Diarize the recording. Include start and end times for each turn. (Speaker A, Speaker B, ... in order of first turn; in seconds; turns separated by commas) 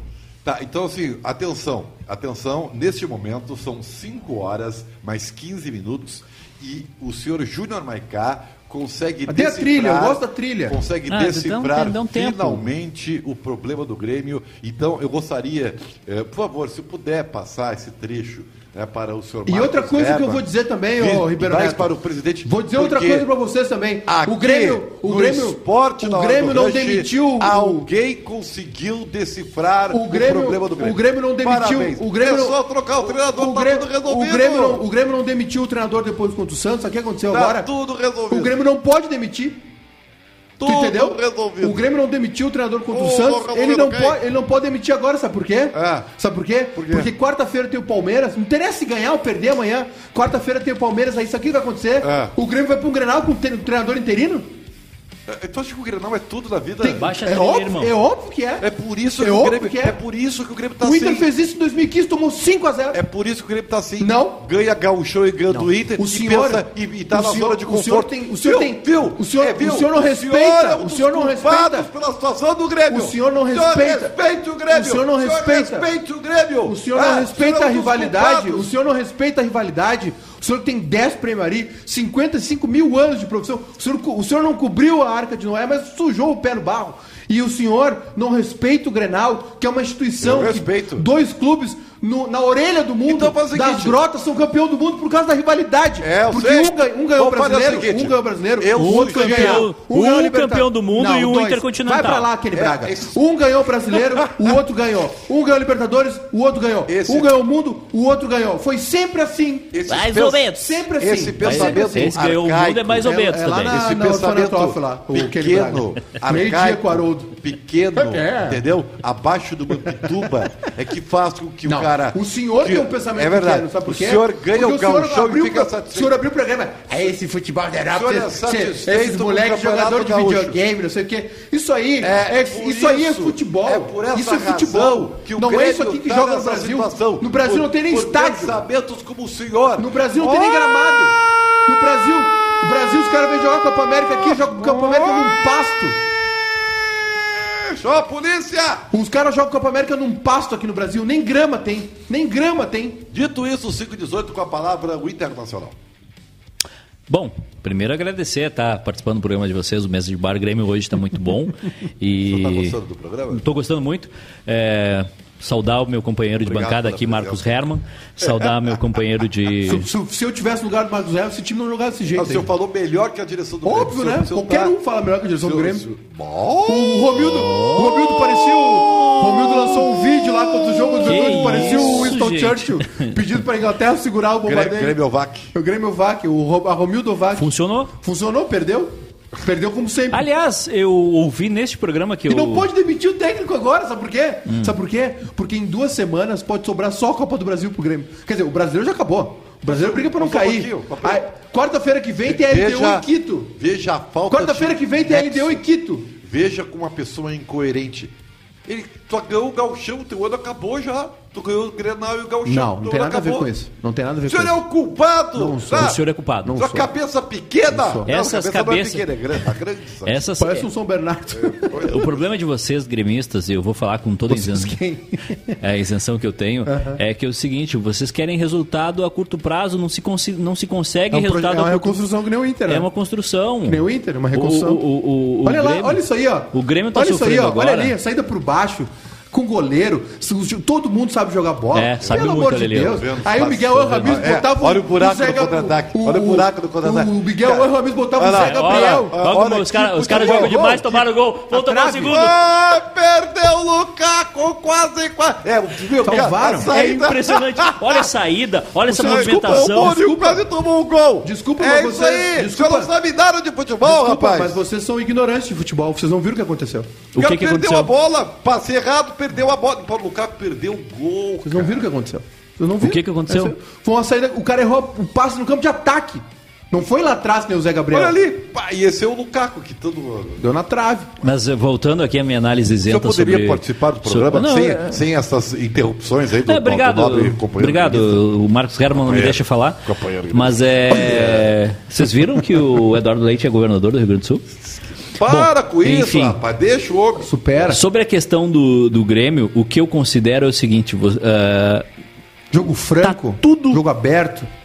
Speaker A: 0.4-23.3, Speaker B: 9.3-10.8, Speaker C: 11.1-12.6, Speaker B: 19.4-21.9, Speaker B: 22.4-27.9, Speaker A: 24.1-34.8, Speaker B: 29.9-37.7, Speaker A: 37.3-38.6, Speaker B: 38.3-39.6, Speaker A: 40.6-41.9, Speaker B: 40.6-54.5, Speaker A: 42.9-44.2, Speaker A: 45.7-46.1, Speaker A: 46.7-47.1, Speaker A: 52.0-52.3, Speaker A: 55.3-57.0, Speaker B: 56.8-58.7, Speaker C: 57.0-57.9, Speaker A: 58.6-61.3, Speaker B: 59.2-60.0, Speaker B: 60.8-63.0, Speaker A: 62.9-78.7, Speaker B: 64.0-64.4, Speaker B: 65.5-71.9, Speaker B: 72.9-74.2, Speaker B: 74.7-75.9, Speaker B: 76.6-109.8, Speaker A: 90.2-91.1, Speaker A: 93.0-94.0, Speaker A: 96.0-99.7, Speaker C: 98.8-102.3, Speaker A: 102.5-103.2, Speaker A: 103.9-104.6, Speaker A: 106.9-107.4, Speaker A: 109.7-113.1, Speaker C: 109.9-110.8, Speaker B: 110.4-112.2, Speaker C: 111.4-113.8, Speaker B: 113.0-117.3, Speaker A: 113.6-126.2, Speaker B: 118.0-118.6, Speaker B: 121.6-138.6, Speaker A: 127.9-130.6, Speaker A: 132.0-141.0, Speaker B: 139.8-146.0, Speaker A: 144.1-145.4, Speaker A: 146.5-148.8, Speaker B: 148.9-153.1, Speaker A: 153.1-155.8, Speaker C: 157.1-162.8, Speaker A: 162.2-163.4, Speaker C: 163.3-169.9, Speaker A: 166.4-167.6, Speaker A: 168.2-168.9, Speaker B: 169.6-172.5, Speaker A: 172.1-174.8, Speaker B: 173.6-175.9, Speaker A: 175.4-181.8, Speaker B: 176.7-185.0, Speaker C: 181.1-183.1, Speaker A: 184.4-185.5, Speaker B: 185.5-187.5, Speaker C: 187.3-187.9, Speaker B: 188.0-190.2, Speaker C: 190.1-192.7, Speaker B: 192.3-203.5, Speaker A: 199.7-201.2, Speaker A: 202.2-205.6, Speaker B: 204.3-206.1, Speaker A: 206.2-208.1, Speaker A: 208.7-213.5, Speaker B: 212.4-214.6, Speaker A: 214.3-216.0, Speaker B: 215.3-216.9, Speaker C: 215.7-216.6, Speaker A: 216.6-220.3, Speaker B: 217.7-218.1, Speaker C: 218.1-219.1, Speaker C: 220.0-220.7, Speaker B: 220.4-222.0, Speaker A: 221.3-222.2, Speaker C: 221.7-224.7, Speaker B: 224.3-225.6, Speaker C: 225.6-232.0, Speaker B: 226.7-227.0, Speaker B: 231.1-232.9, Speaker C: 232.7-237.9, Speaker B: 233.6-234.8, Speaker B: 235.4-249.1, Speaker C: 241.7-243.0, Speaker A: 242.0-250.8, Speaker C: 248.3-252.3, Speaker B: 250.1-252.2, Speaker A: 252.1-258.1, Speaker B: 256.0-256.7, Speaker C: 256.1-260.1, Speaker A: 258.9-264.6, Speaker B: 258.9-260.4, Speaker B: 261.2-262.9, Speaker B: 263.8-266.9, Speaker C: 267.1-267.9, Speaker A: 267.2-271.9, Speaker B: 271.4-278.1, Speaker C: 272.8-273.5, Speaker A: 277.9-280.4, Speaker B: 280.4-281.1, Speaker C: 281.2-285.0, Speaker A: 282.9-288.2, Speaker C: 286.4-294.4, Speaker A: 288.9-291.5, Speaker A: 295.1-297.7, Speaker C: 295.2-296.4, Speaker B: 297.2-297.8, Speaker C: 297.7-301.9, Speaker B: 302.5-304.5, Speaker C: 303.0-303.8